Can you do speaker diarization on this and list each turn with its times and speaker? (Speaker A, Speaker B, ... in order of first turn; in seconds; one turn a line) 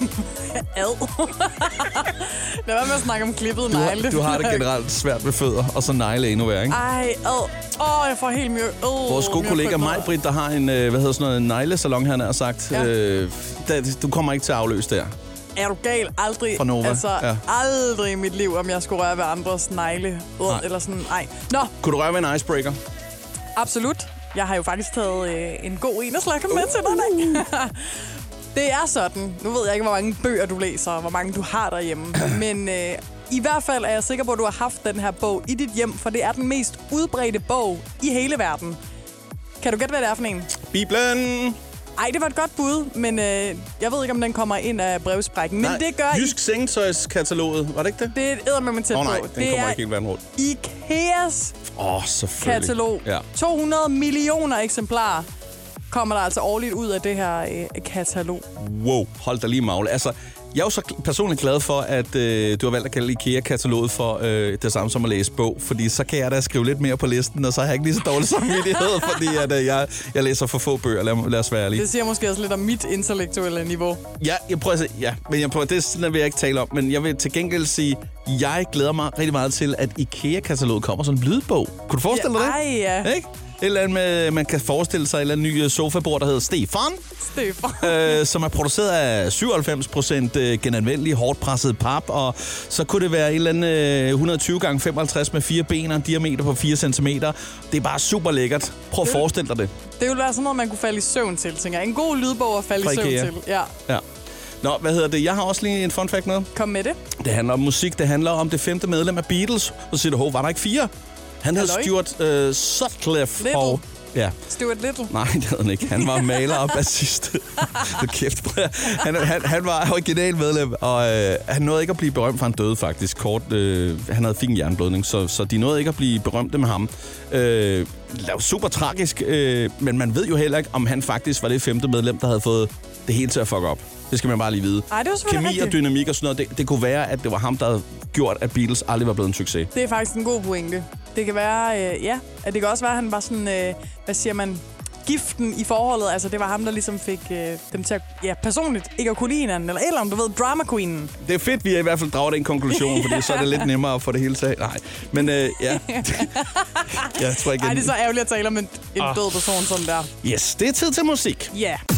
Speaker A: 0.5-4.6
Speaker B: 3.7-6.8
Speaker A: 6.7-10.1
Speaker B: 9.1-15.1
Speaker A: 15.5-21.7
Speaker B: 16.5-17.4
Speaker B: 21.8-22.8
Speaker A: 23.6-28.0
Speaker B: 26.5-27.4
Speaker A: 28.5-38.8
Speaker A: 39.6-40.5
Speaker B: 40.7-41.6
Speaker A: 42.0-46.4
Speaker B: 45.6-48.1
Speaker A: 48.1-49.8
Speaker B: 48.9-50.2
Speaker A: 50.4-51.6
Speaker B: 51.7-53.2
Speaker A: 52.4-55.2
Speaker A: 55.9-58.5
Speaker B: 58.5-71.9
Speaker A: 71.7-74.0
Speaker B: 74.2-87.0
Speaker A: 82.1-83.1
Speaker A: 87.2-88.2
Speaker B: 87.8-99.7
Speaker A: 100.0-103.7
Speaker B: 102.8-103.3
Speaker B: 104.6-106.5
Speaker A: 106.5-107.0
Speaker B: 107.2-110.9
Speaker B: 111.4-114.3
Speaker A: 111.5-111.9
Speaker A: 113.4-113.8
Speaker A: 114.5-115.1
Speaker B: 115.1-139.7
Speaker A: 134.9-135.8
Speaker A: 139.7-151.1
Speaker B: 151.2-156.4
Speaker A: 152.7-153.7
Speaker A: 155.7-160.1
Speaker B: 156.9-157.9
Speaker B: 160.2-161.5
Speaker A: 161.5-161.8